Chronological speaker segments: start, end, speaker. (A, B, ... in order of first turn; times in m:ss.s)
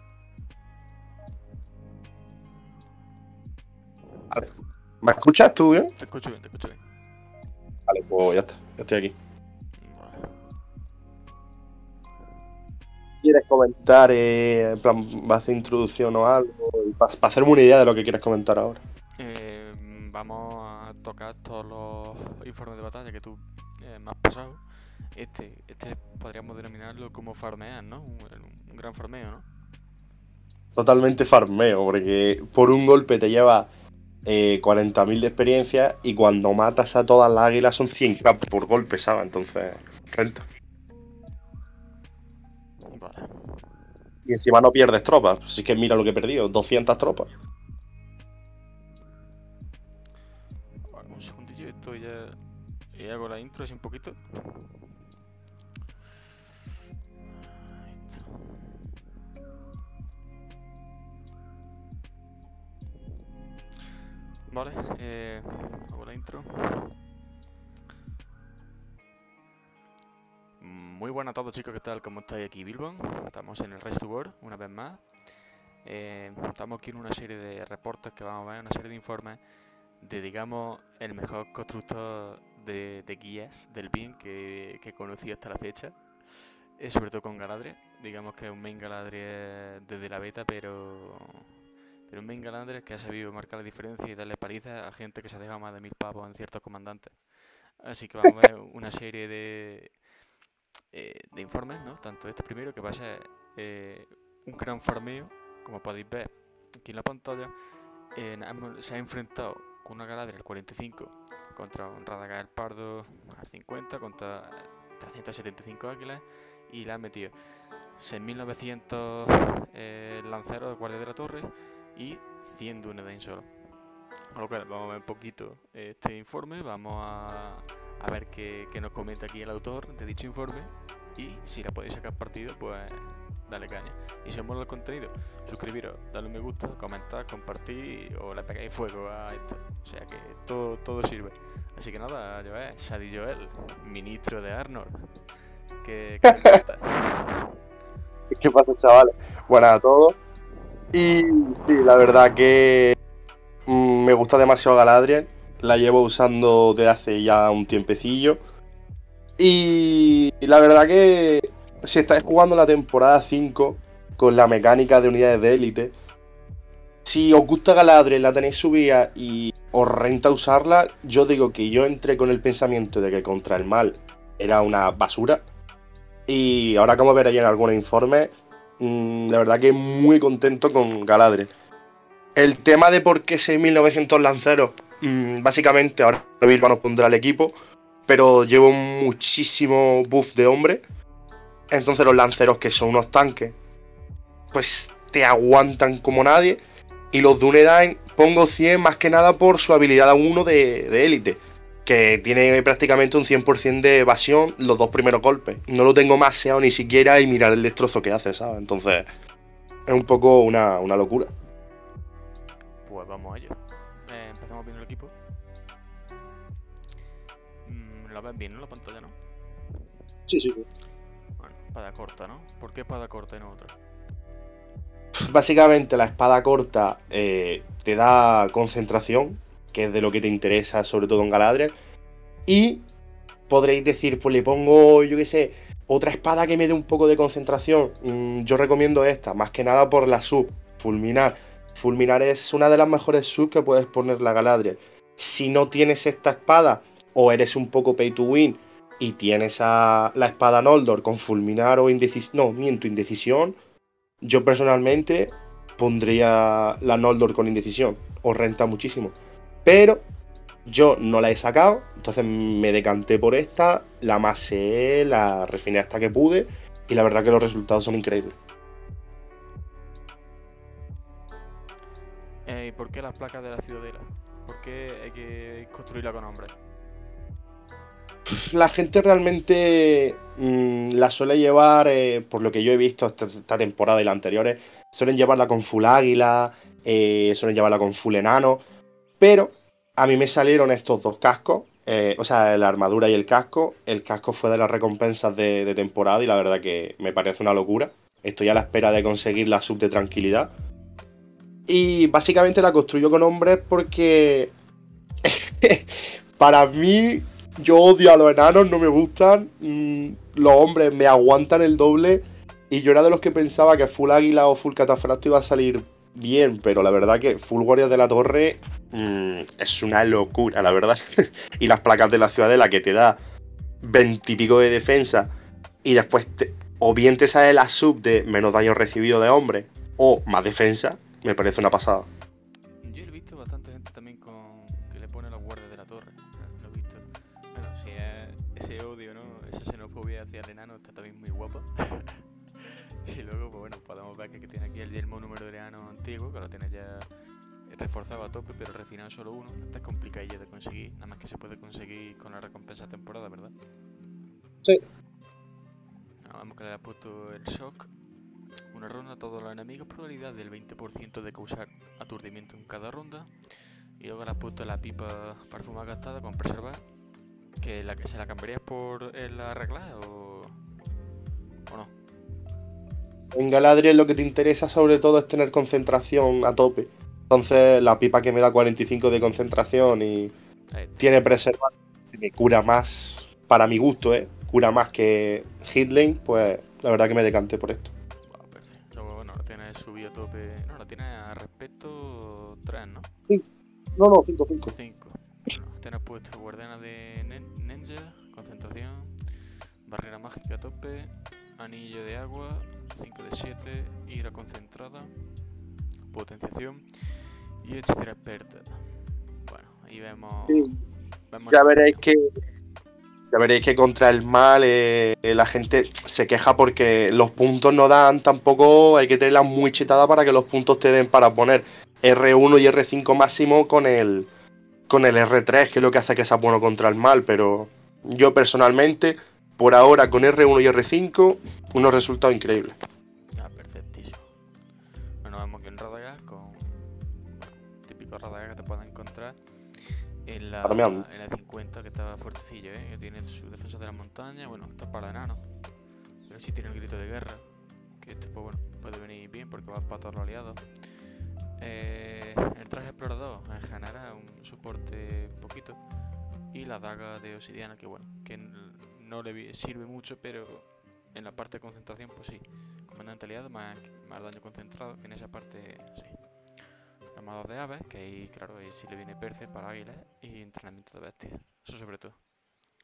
0:05.0-0:05.9 A
0:06.0-0:06.8 B
0:07.9-0:09.1 A
0:09.8-0:10.4 B
0:13.2-0:18.8 A
0:19.2-0:29.5 B
0:30.8-0:33.7 A
0:34.2-0:40.4 A
0:42.9-0:43.9 B
0:44.3-0:47.3 A
0:50.8-0:55.0 B
0:57.6-0:58.8 B
1:04.5-1:07.0 B
1:10.6-1:40.3 B
1:40.9-2:27.5 B
2:26.2-2:26.6 A
2:28.3-2:30.2 A
2:30.9-2:33.0 A
2:33.7-2:38.4 A
2:39.4-2:45.9 A
2:47.0-2:55.4 A
2:56.3-3:01.5 A
3:02.4-3:07.5 A
3:08.1-3:10.8 A
3:11.7-3:13.6 A
3:14.5-3:16.6 A
3:17.1-3:29.1 A
3:29.9-3:31.3 A
3:32.8-3:35.2 B
3:37.6-3:39.2 B
3:40.3-3:40.7 A
3:41.4-3:43.8 B
3:45.2-3:51.7 A
3:52.5-3:52.8 A
3:53.5-4:13.6 A
4:14.2-4:20.0 A
4:20.7-4:28.4 A
4:32.4-4:36.5 B
4:38.3-4:48.6 A
4:49.2-5:00.5 A
5:01.7-5:04.5 A
5:05.2-5:23.2 A
5:23.8-5:25.3 A
5:25.8-5:32.1 A
5:32.8-5:42.3 B
5:43.0-5:53.5 B
5:56.2-5:58.0 B
5:58.7-6:06.9 B
6:07.6-6:10.6 B
6:11.7-6:11.9 B
6:13.3-6:20.3 A
6:20.7-6:21.3 B
6:21.0-6:27.9 A
6:28.2-6:33.1 B
6:34.0-6:34.7 A
6:34.7-6:45.5 B
6:46.1-6:50.8 B
6:50.5-6:50.8 A
6:51.3-6:52.0 B
6:51.5-6:52.2 A
6:53.3-7:04.3 A
7:04.9-7:12.8 A
7:13.3-7:14.4 B
7:15.2-7:25.6 B
7:20.6-7:21.1 A
7:26.2-7:52.3 B